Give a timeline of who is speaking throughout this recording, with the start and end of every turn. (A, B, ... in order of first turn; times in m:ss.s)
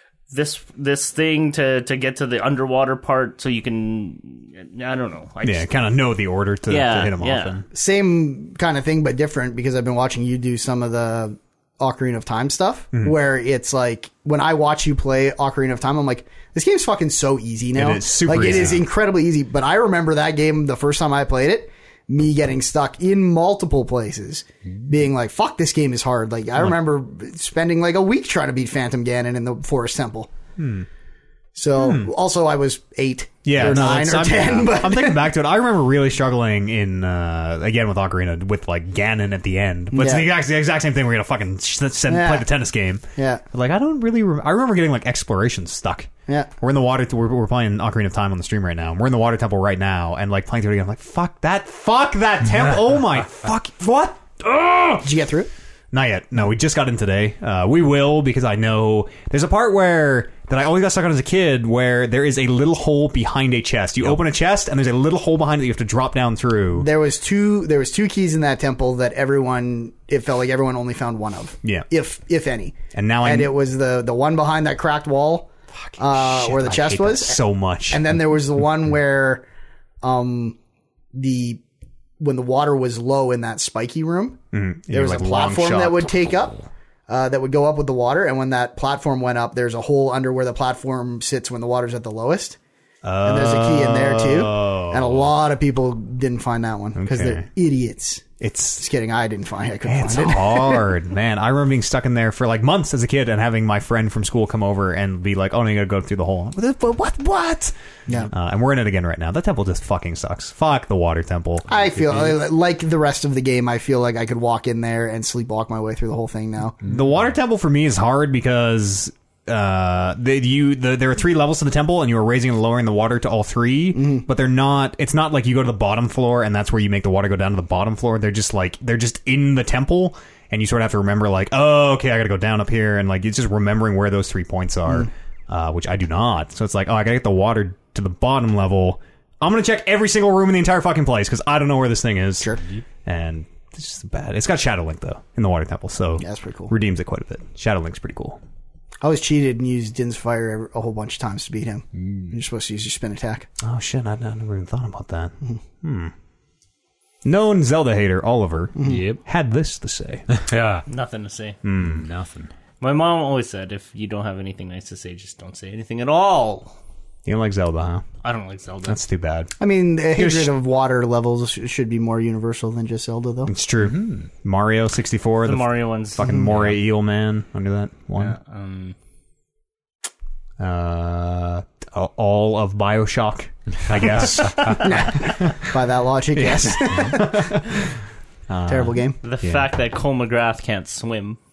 0:00.3-0:05.7 A
0:05.4-0:07.6 B
0:06.7-0:07.6 A
0:07.7-0:30.3 C
0:17.7-0:18.9 B
0:30.6-0:30.9 B
0:31.5-0:35.3 C
0:31.8-0:32.1 B
0:33.4-0:55.1 B
0:39.9-0:40.3 C
0:42.1-0:42.5 C
0:43.2-0:43.4 C
0:55.0-0:55.5 C
0:55.9-1:06.9 B
1:06.8-1:19.4 C
1:12.9-1:13.5 B
1:16.1-1:17.2 D
1:17.0-1:18.1 B
1:20.0-1:20.6 C
1:21.1-1:21.6 C
1:22.2-1:32.6 C
1:24.5-1:26.6 B
1:33.0-1:35.3 B
1:33.2-1:40.9 C
1:37.0-1:37.5 B
1:38.4-1:38.8 B
1:39.8-1:47.7 B
1:48.2-1:52.4 B
1:51.7-1:56.8 C
1:56.8-2:28.4 B
2:03.9-2:04.2 C
2:26.2-2:26.7 C
2:29.0-2:33.5 C
2:32.0-2:32.3 D
2:33.6-2:36.1 B
2:37.2-2:40.2 B
2:38.8-2:39.0 C
2:38.8-2:39.2 D
2:40.3-2:40.8 D
2:40.9-2:41.6 A
2:41.6-2:42.1 B
2:41.8-2:42.5 D
2:42.8-2:46.7 A
2:47.2-2:48.0 B
2:48.2-2:49.0 A
2:48.9-2:49.5 B
2:49.6-2:53.5 C
2:50.1-2:50.5 B
2:53.4-2:58.4 B
2:53.8-2:54.2 D
2:55.4-2:56.3 A
2:56.5-2:56.7 D
2:58.2-2:58.9 A
3:00.6-3:05.6 B
3:04.5-3:07.7 C
3:06.3-3:08.0 B
3:08.5-3:09.7 B
3:08.7-3:09.2 C
3:09.2-3:11.4 A